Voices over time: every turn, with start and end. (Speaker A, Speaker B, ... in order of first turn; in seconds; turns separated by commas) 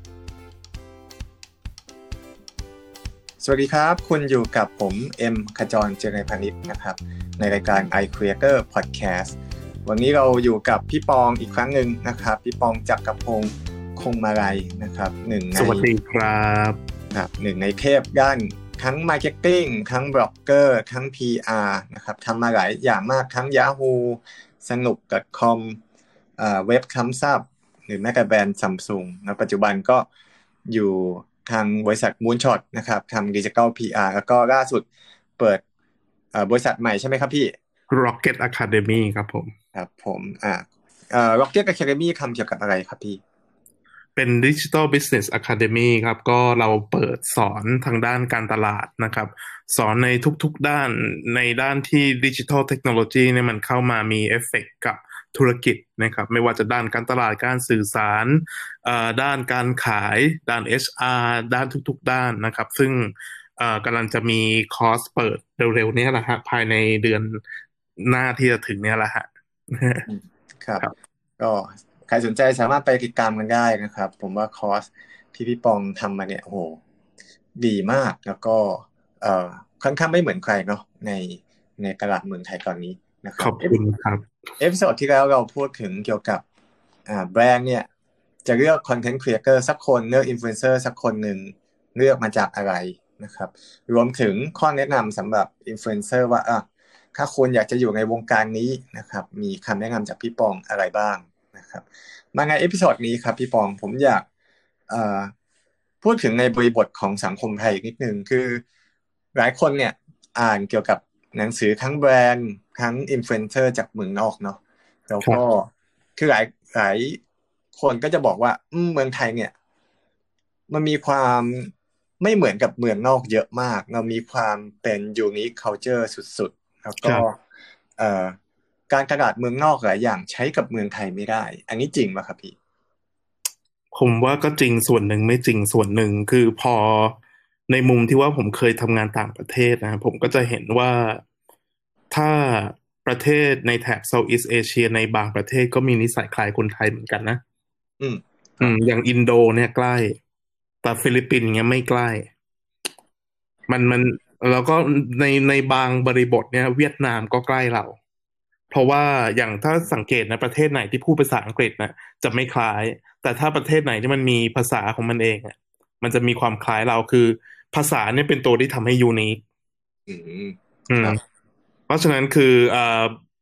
Speaker A: 3.4-15.9, Speaker B: 15.6-16.8, Speaker A: 17.1-25.8, Speaker A: 26.4-30.1, Speaker A: 30.7-34.9, Speaker A: 36.3-37.5, Speaker B: 37.9-39.5, Speaker A: 39.7-43.2, Speaker B: 44.2-67.4, Speaker B: 68.0-70.1, Speaker A: 70.1-70.8, Speaker A: 71.4-76.8, Speaker A: 77.6-83.8, Speaker B: 83.4-84.3, Speaker A: 84.6-86.4, Speaker A: 87.1-87.9, Speaker A: 88.5-96.6, Speaker A: 97.2-104.2, Speaker A: 104.9-105.3, Speaker A: 106.0-108.6, Speaker A: 109.3-117.2, Speaker A: 117.8-119.5, Speaker A: 120.7-127.4, Speaker A: 128.0-128.4, Speaker A: 128.9-132.6, Speaker B: 133.9-137.2, Speaker B: 137.7-141.2, Speaker B: 142.1-147.4, Speaker A: 148.0-148.8, Speaker B: 148.6-150.2, Speaker B: 150.8-152.3, Speaker B: 153.7-158.0, Speaker B: 158.7-169.4, Speaker A: 170.1-171.2, Speaker B: 170.9-171.2, Speaker B: 171.9-173.2